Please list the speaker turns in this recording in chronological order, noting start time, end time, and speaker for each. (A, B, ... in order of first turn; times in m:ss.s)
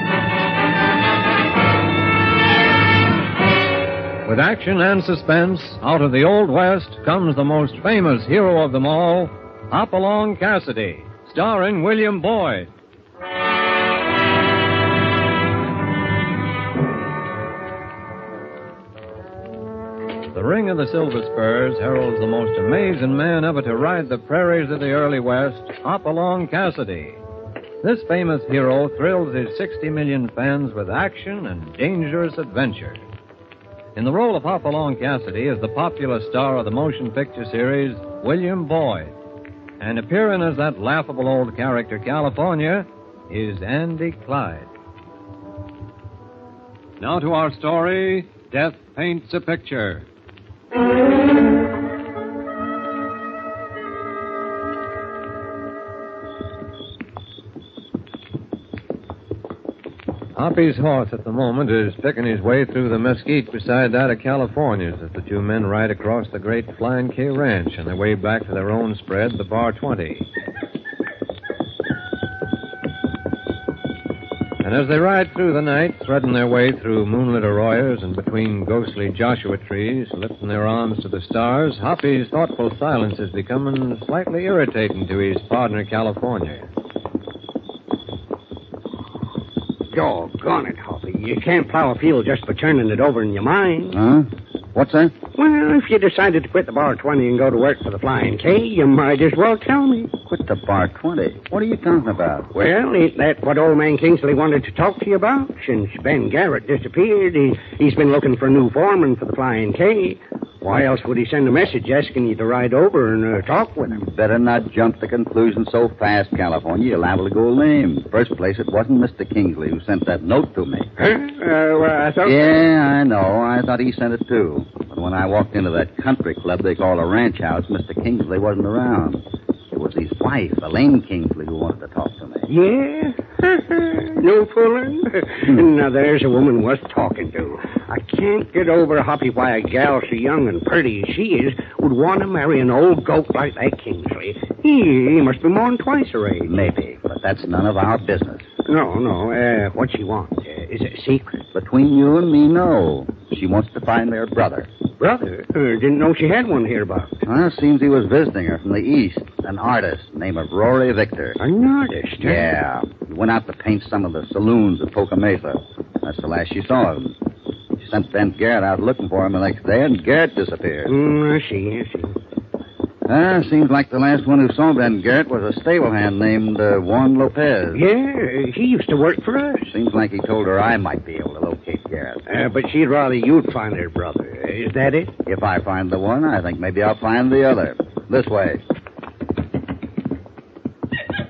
0:04.3-0:12.7 A
0:20.3-0:27.2 A
0:27.8-0:33.0 A
0:34.0-0:39.1 A
0:39.8-0:44.7 A
0:47.0-0:50.0 A
1:00.4-1:10.3 A
1:14.6-1:26.7 A
1:29.9-1:34.0 B
1:33.9-1:35.2 C
1:35.4-1:40.1 B
1:40.3-1:42.5 C
1:42.5-1:54.1 B
1:53.9-2:00.9 C
2:01.0-2:02.6 B
2:02.2-2:12.5 C
2:12.5-2:26.6 B
2:26.4-2:28.4 C
2:28.6-2:31.4 B
2:31.5-2:34.7 C
2:35.0-2:37.1 B
2:37.3-2:41.4 C
2:41.4-2:42.5 B
2:42.2-2:47.2 C
2:47.8-2:51.0 C
2:50.9-2:52.2 B
2:53.1-2:57.8 C
2:57.7-2:59.7 B
2:59.7-3:02.2 C
3:02.3-3:05.1 B
3:05.3-3:08.6 C